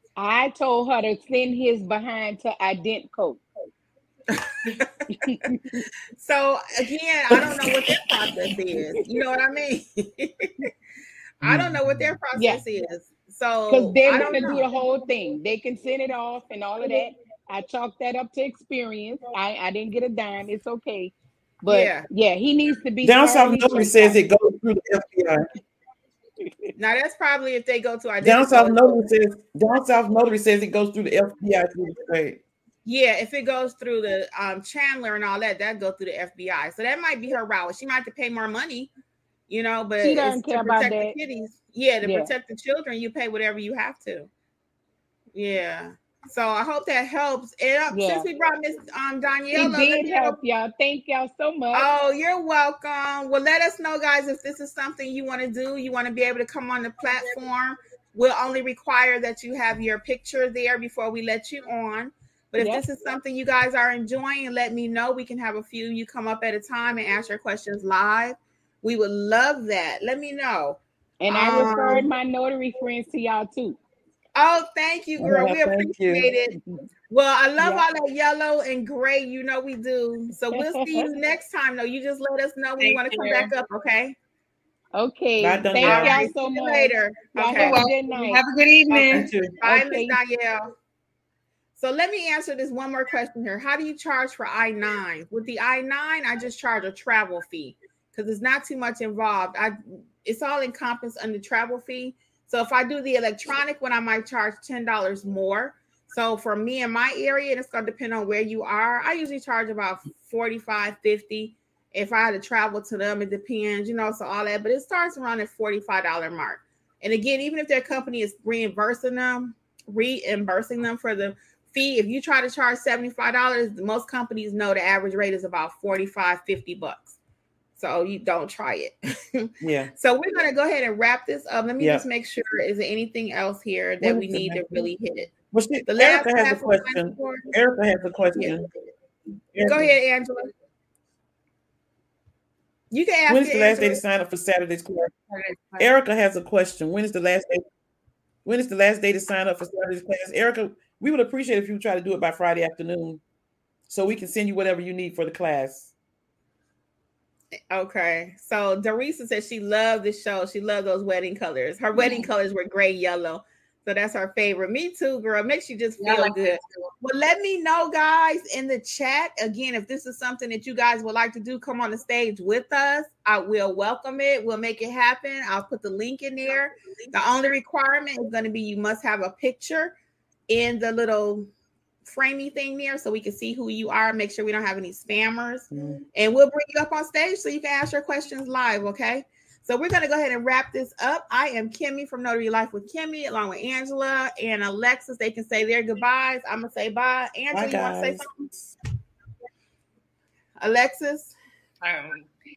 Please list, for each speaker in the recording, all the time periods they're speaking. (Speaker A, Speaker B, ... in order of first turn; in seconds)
Speaker A: 0.2-3.4, 5.2-5.9, 12.3-12.6, 13.7-24.2, 40.0-41.2, 42.0-42.3, 47.9-48.3, 49.5-51.9, 62.6-62.8, 71.2-73.8, 77.6-77.9, 80.5-81.1, 85.0-88.4, 89.6-90.2
Speaker B: 4.3-4.9, 6.2-10.7, 11.4-14.7, 21.7-22.1, 26.8-29.0, 32.9-38.9, 39.5-44.3, 45.4-50.4, 51.7-72.1, 74.4-76.6, 77.1-84.2, 85.8-87.9, 88.9-90.7, 91.8-127.2, 127.8-135.3, 135.9-137.5, 139.6-140.5, 142.9-144.0, 157.7-179.9, 180.5-181.5, 182.0-198.5, 200.6-201.3
Speaker C: 11.4-11.8, 23.0-25.4, 28.2-32.4, 75.2-76.3, 85.4-86.3, 89.1-89.5, 129.6-129.9, 131.8-132.1, 134.0-134.9, 135.5-138.7, 139.5-139.9, 143.3-145.1, 145.8-147.6, 148.4-153.2, 153.9-155.9, 185.7-186.0, 197.5-198.7
Speaker D: 82.8-83.5, 87.5-89.3, 145.3-145.9, 161.9-162.3, 166.0-166.9, 201.8-202.3